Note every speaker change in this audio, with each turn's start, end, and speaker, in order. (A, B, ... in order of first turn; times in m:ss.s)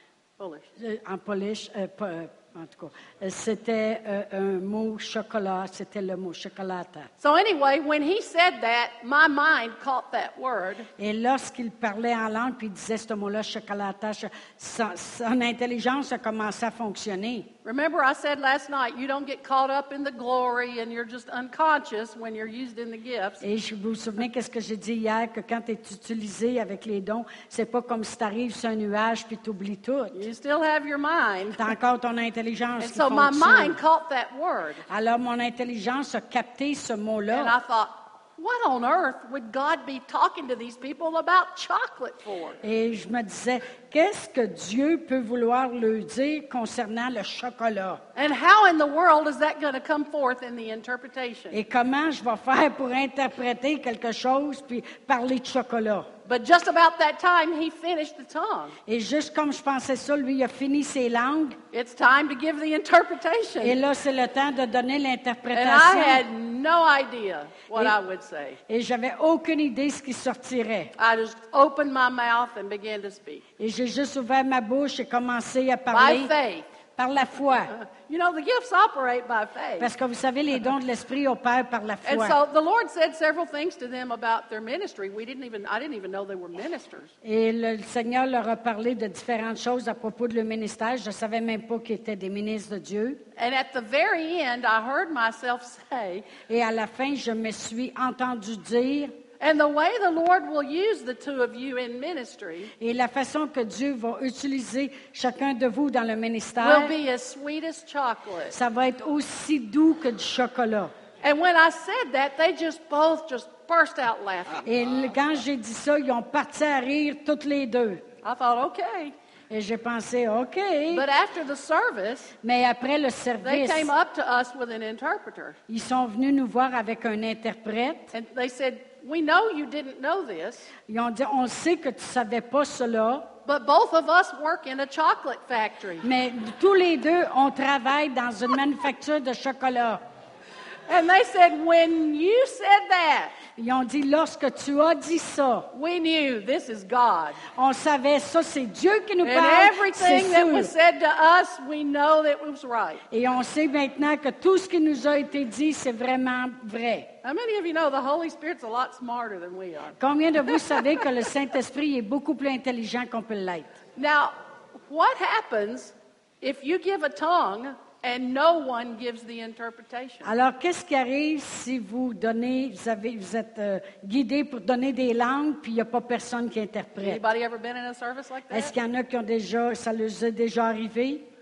0:00.4-0:00.7 A
0:00.8-0:07.1 B
0:07.2-0:10.9 A
0:11.0-0:17.5 B
0:17.6-0:23.4 A
0:23.4-0:30.3 B
0:30.1-0:31.7 A
0:31.6-0:33.8 B
0:32.8-0:34.8 A
0:34.9-0:37.6 B
0:37.3-0:42.6 A
0:42.6-0:48.0 B
0:48.2-0:51.6 A
0:51.5-0:56.1 B
0:56.3-0:58.8 A
0:58.9-1:01.6 B
1:01.7-1:03.8 A
1:03.6-1:06.2 B
1:05.5-1:08.6 A
1:08.7-1:10.9 B
1:11.0-1:13.4 A
1:13.6-1:16.3 B
1:15.9-1:16.7 A
1:17.0-1:17.7 B
1:17.7-1:19.9 A
1:19.8-1:22.4 B
1:22.0-1:27.1 A
1:27.2-1:33.2 B
1:33.4-1:36.3 A
1:36.5-1:39.1 B
1:39.4-1:42.7 A
1:42.8-1:47.0 B
1:46.6-1:48.6 A
1:48.5-1:50.9 B
1:51.2-1:54.6 A
1:54.6-1:58.0 B
1:58.2-1:59.1 A
1:59.5-2:01.1 B
2:00.9-2:02.3 A
2:02.4-2:03.9 B
2:03.4-2:05.6 A
2:05.7-2:08.1 B
2:08.1-2:10.7 A
2:10.9-2:13.3 B
2:13.5-2:16.1 A
2:16.0-2:20.0 B
2:20.9-2:23.4 A
2:23.6-2:25.7 B
2:25.7-2:27.4 A
2:27.5-2:30.7 B
2:29.2-2:33.0 A
2:33.1-2:37.1 B
2:37.2-2:40.0 A
2:40.0-2:43.8 B
2:40.5-2:40.9 A
2:44.0-2:44.3 A
2:44.9-2:50.3 A
2:50.2-2:57.2 B
2:57.0-2:58.7 A
2:58.5-3:01.3 B